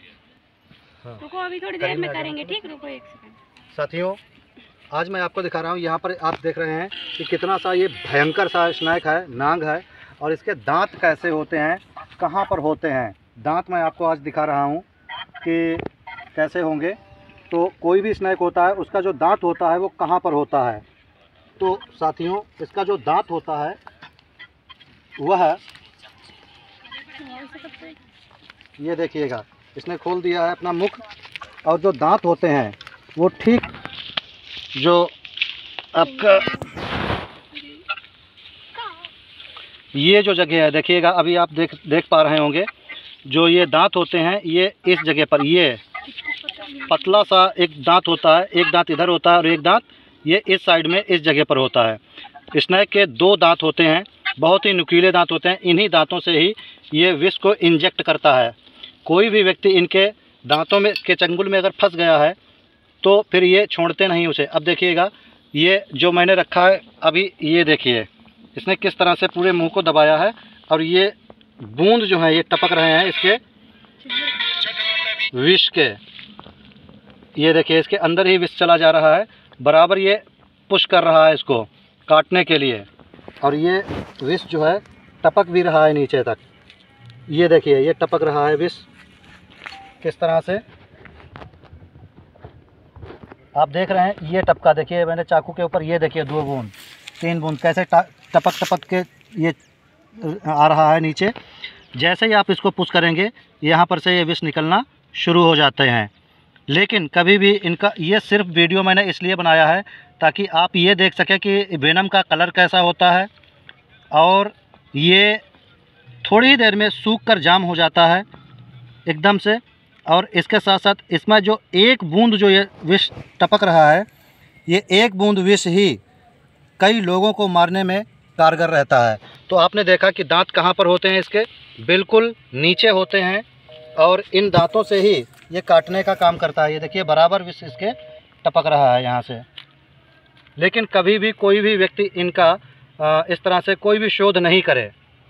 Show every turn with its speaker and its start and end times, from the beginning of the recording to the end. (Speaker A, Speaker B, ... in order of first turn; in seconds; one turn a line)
Speaker A: 1.2-3.4
Speaker B: 1.8-2.6
Speaker B: 3.7-4.2
Speaker B: 4.9-14.9
Speaker B: 15.4-17.0
Speaker B: 17.5-20.8
Speaker B: 21.6-23.8
Speaker B: 25.2-25.6
Speaker A: 27.2-27.9
Speaker B: 28.8-31.0
Speaker B: 31.6-33.7
Speaker B: 34.8-35.1
Speaker B: 35.9-36.6
Speaker A: 36.3-36.6
Speaker B: 39.9-42.7
Speaker B: 43.3-45.8
Speaker A: 46.2-47.0
Speaker B: 46.9-52.0
Speaker B: 52.5-62.4
Speaker B: 63.0-73.4
Speaker B: 75.3-76.0
Speaker B: 77.4-82.9
Speaker B: 83.4-86.4
Speaker B: 87.3-88.9
Speaker B: 90.0-90.6
Speaker B: 93.5-99.6
Speaker B: 100.2-101.3
Speaker B: 102.0-106.1
Speaker B: 106.7-113.3
Speaker B: 114.1-115.4
Speaker B: 116.2-118.3
Speaker B: 119.1-124.1
Speaker B: 124.7-126.0
Speaker B: 126.8-133.5
Speaker B: 134.0-139.5
Speaker B: 140.6-144.9